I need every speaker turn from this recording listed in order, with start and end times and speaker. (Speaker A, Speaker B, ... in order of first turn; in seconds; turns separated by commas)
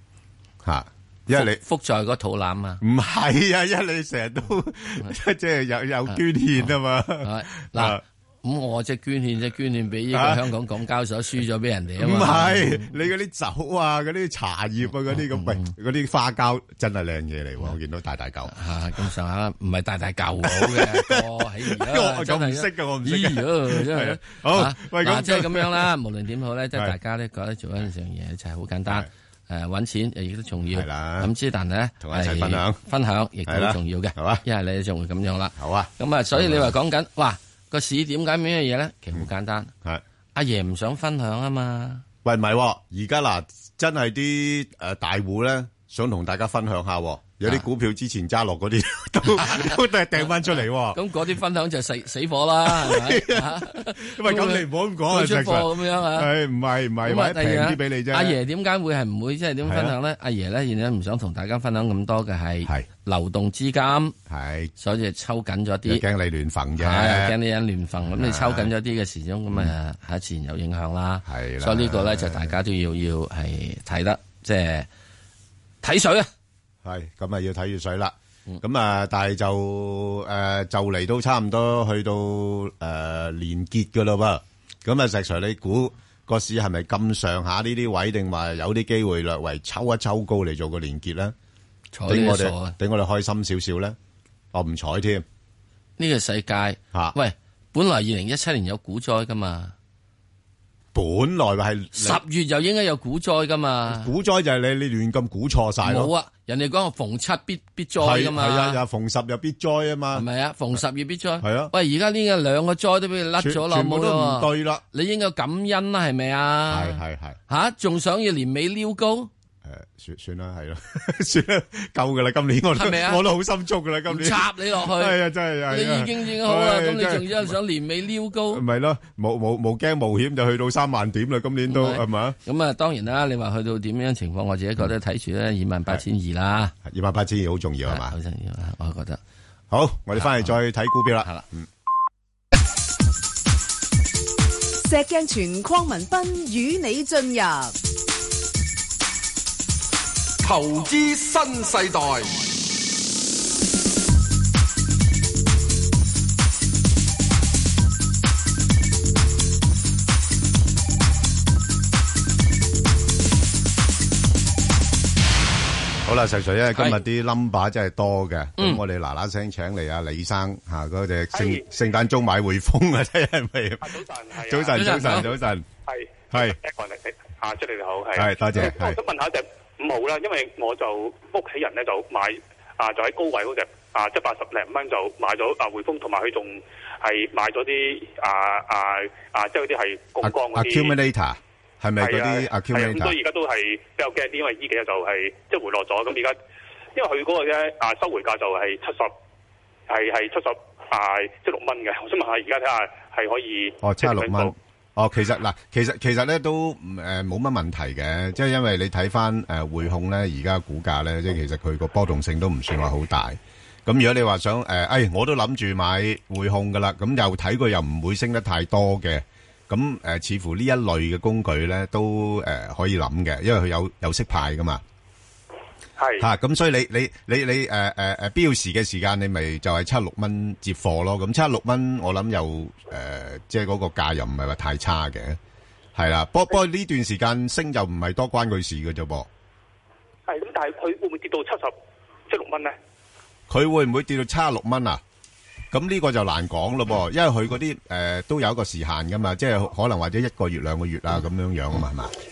Speaker A: 0.6-1.6, Speaker B: 1.3-2.8, Speaker A: 2.8-8.0, Speaker B: 6.1-13.0, Speaker A: 10.1-10.4, Speaker A: 12.0-18.5, Speaker B: 15.1-15.7, Speaker B: 18.5-39.7, Speaker A: 20.4-25.9, Speaker A: 30.7-31.3, Speaker A: 32.0-32.8, Speaker A: 33.5-34.4, Speaker A: 35.6-36.7, Speaker B: 40.4-42.0, Speaker A: 42.2-51.0, Speaker B: 49.4-49.8, Speaker B: 50.9-56.3, Speaker A: 52.6-58.4, Speaker B: 57.0-64.2, Speaker A: 59.6-60.0, Speaker A: 64.3-64.7, Speaker B: 64.8-66.0, Speaker A: 65.9-67.4, Speaker B: 66.8-74.9, Speaker A: 68.1-68.7, Speaker A: 71.3-72.6, Speaker B: 75.8-76.3, Speaker A: 76.8-91.3, Speaker B: 91.9-92.8, Speaker A: 92.1-94.0, Speaker A: 94.5-95.2, Speaker B: 96.0-99.7, Speaker A: 100.9-102.2, Speaker B: 102.0-104.1, Speaker A: 103.9-106.1, Speaker B: 105.8-108.8, Speaker A: 108.0-110.3, Speaker B: 110.1-119.3, Speaker A: 111.4-111.7, Speaker A: 113.4-114.8, Speaker A: 116.7-117.4, Speaker A: 119.6-127.5, Speaker B: 122.8-123.2, Speaker B: 124.1-125.2, Speaker B: 125.7-128.6, Speaker A: 128.5-132.4, Speaker B: 131.7-136.7, Speaker A: 136.8-138.1, Speaker B: 137.9-139.2, Speaker A: 139.7-141.7, Speaker B: 140.2-140.6, Speaker C: 144.8-147.8, Speaker D: 150.4-152.5, Speaker A: 166.1-175.7, Speaker B: 166.7-167.0, Speaker E: 171.3-171.6, Speaker E: 173.8-175.2, Speaker B: 174.7-175.3, Speaker E: 175.9-190.9, Speaker A: 176.3-176.6, Speaker A: 178.2-179.0, Speaker A: 190.2-193.2, Speaker E: 192.0-196.4, Speaker E: 196.9-199.1, Speaker E: 199.9-204.5, Speaker A: 203.8-224.8, Speaker E: 226.0-226.3, Speaker A: 226.2-235.4, Speaker A: 235.9-239.3, Speaker E: 240.3-241.8, Speaker E: 242.3-242.8, Speaker A: 243.5-245.0, Speaker A: 245.7-252.1